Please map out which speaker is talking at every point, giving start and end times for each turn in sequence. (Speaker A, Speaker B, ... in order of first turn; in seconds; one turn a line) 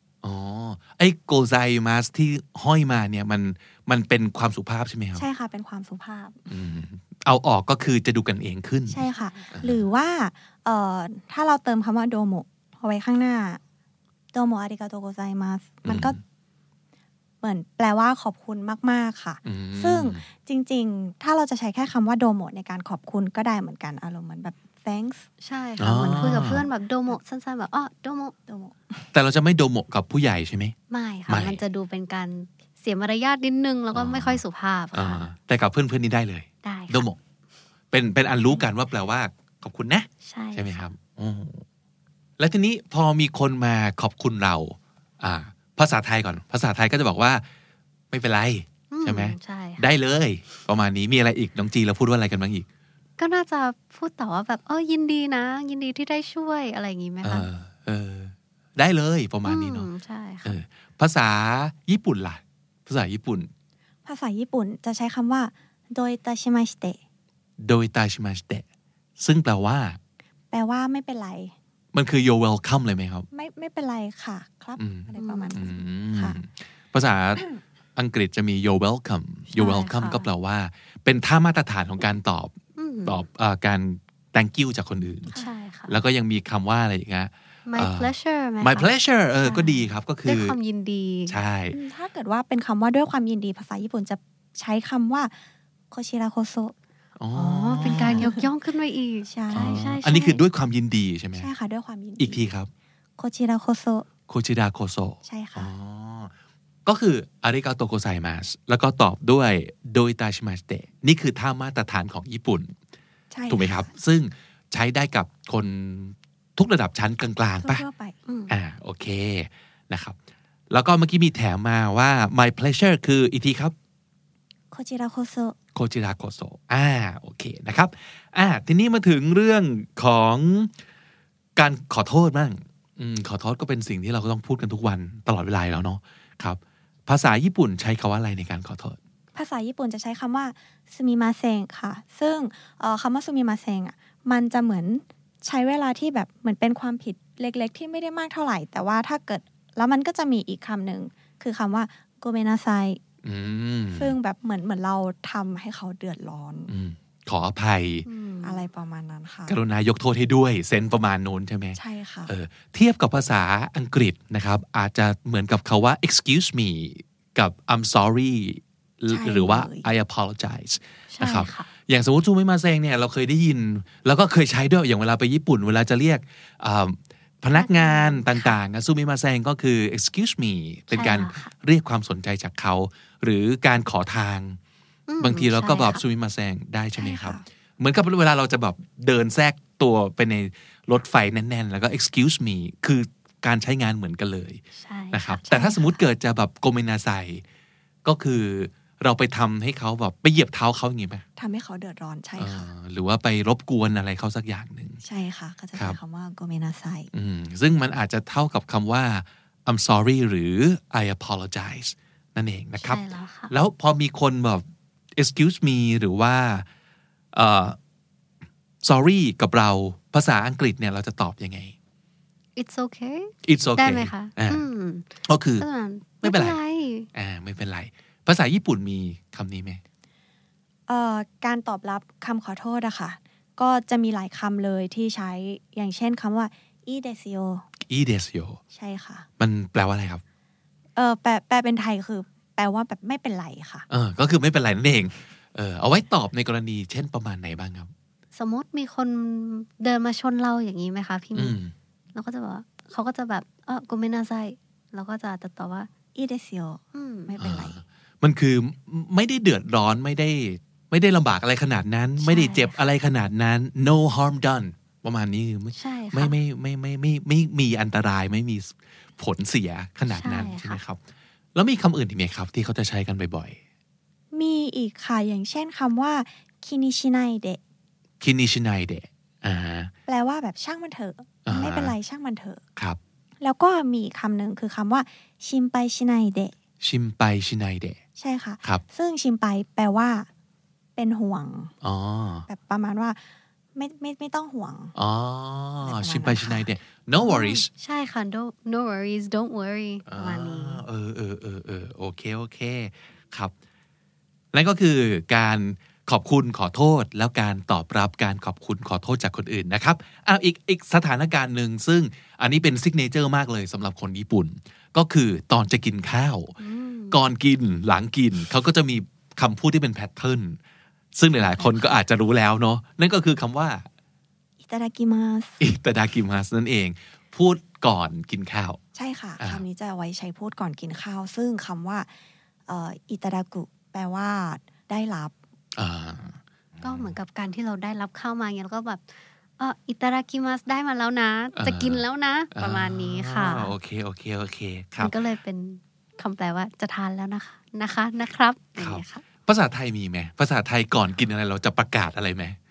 Speaker A: 0.2-5.2
Speaker B: 5.2-6.4
Speaker A: 6.5-9.8
Speaker B: 8.9-13.6
Speaker C: 9.1-9.5
Speaker B: 14.3-16.2
Speaker A: 15.8-16.2
Speaker B: 17.4-25.3
Speaker A: 19.4-20.2
Speaker C: 25.4-28.3
Speaker A: 25.8-26.6
Speaker B: 28.5-29.1
Speaker A: 29.1-30.8
Speaker C: 30.9-35.2
Speaker A: 31.3-31.6
Speaker A: 33.9-34.4
Speaker A: 34.9-37.2
Speaker C: 36.6-37.1
Speaker A: 37.9-41.6
Speaker C: 40.2-40.9
Speaker A: 42.4-47.5
Speaker A: 48.1-52.7
Speaker C: 48.9-49.9
Speaker C: 53.2-57.5
Speaker A: 57.2-59.9
Speaker C: 59.5-60.6
Speaker A: 60.5-63.5
Speaker B: 64.0-67.0
Speaker A: 67.6-68.6
Speaker A: 69.2-70.0
Speaker B: 70.5-71.5
Speaker A: 71.9-73.3
Speaker B: 73.3-76.4
Speaker A: 74.8-82.5
Speaker C: 75.2-75.6
Speaker C: 79.5-80.3
Speaker C: 82.8-83.2
Speaker A: 83.0-85.3
Speaker C: 85.3-86.0
Speaker A: 85.9-90.6
Speaker C: 87.7-88.9
Speaker C: 89.4-91.4
Speaker A: 91.3-91.8
Speaker B: 91.7-95.3
Speaker B: 95.9-96.8
Speaker A: 97.2-98.3
Speaker C: 97.3-100.4
Speaker B: 97.8-98.5
Speaker B: 99.3-99.9
Speaker A: 99.5-101.5
Speaker B: 101.4-102.4
Speaker A: 102.2-102.7
Speaker B: 103.2-104.1
Speaker A: 104.3-106.3
Speaker B: 105.2-105.7
Speaker A: 106.8-112.7
Speaker B: 113.3-113.9
Speaker A: 113.5-117.8
Speaker B: 117.6-118.2
Speaker C: 118.3-118.5
Speaker A: 118.5-120.2
Speaker A: 120.7-123.7
Speaker B: 124.7-125.6
Speaker A: 125.8-130.7
Speaker A: 131.6-139.0
Speaker B: 139.3-153.0
Speaker A: 153.2-154.2
Speaker B: 153.9-156.7
Speaker A: 156.7-158.1
Speaker C: 158.1-158.6
Speaker B: 158.4-159.6
Speaker A: 159.5-184.6
Speaker B: 161.8-162.3
Speaker B: 169.1-169.9
Speaker C: 171.1-171.7
Speaker C: 177.6-178.6
Speaker C: 180.9-181.5
Speaker C: 185.1-186.0
Speaker A: 185.2-197.4
Speaker B: 187.0-187.4
Speaker C: 194.8-196.0
Speaker A: 198.1-201.2
Speaker B: 201.4-202.7
Speaker A: 202.4-205.0
Speaker B: 205.0-207.1
Speaker A: 207.1-214.7
Speaker C: 212.8-213.5
Speaker A: 215.2-216.7
Speaker A: 217.3-217.8
Speaker A: 218.8-221.7
Speaker C: 222.6-227.1
Speaker A: 223.4-224.6
Speaker A: 225.2-225.7
Speaker A: 226.2-226.6
Speaker A: 227.1-229.8
Speaker B: 230.9-237.7
Speaker A: 237.9-238.6
Speaker B: 238.7-239.3
Speaker A: 239.4-240.2
Speaker B: 241.0-243.9
Speaker A: 243.9-247.9
Speaker C: 248.3-251.6
Speaker A: 251.3-251.7
Speaker C: 252.2-255.9
Speaker B: 256.1-257.8
Speaker C: 256.9-257.3
Speaker A: 257.4-271.0
Speaker C: 262.2-262.8
Speaker C: 265.8-266.4
Speaker C: 270.1-270.8
Speaker A: 271.6-273.6
Speaker B: 274.3-277.6
Speaker A: 278.2-279.9
Speaker B: 280.1-282.6
Speaker A: 281.4-281.9
Speaker B: 283.4-286.5
Speaker A: 286.8-288.0
Speaker B: 288.2-290.3
Speaker B: 291.0-291.7
Speaker A: 291.8-292.5
Speaker B: 292.5-293.2
Speaker B: 293.8-294.9
Speaker A: 294.9-297.7
Speaker B: 295.8-296.7
Speaker C: 297.2-300.8
Speaker A: 300.1-303.5
Speaker A: 304.5-316.5
Speaker C: 316.6-317.2
Speaker A: 317.1-320.6
Speaker A: 321.1-323.9
Speaker B: 321.4-321.9
Speaker B: 324.6-325.6
Speaker A: 325.6-328.8
Speaker B: 328.9-332.1
Speaker B: 332.7-335.3
Speaker A: 335.8-337.2
Speaker C: 336.8-339.0
Speaker C: 339.6-343.7
Speaker A: 341.6-342.0
Speaker A: 342.5-345.1
Speaker C: 345.0-349.2
Speaker A: 348.8-352.6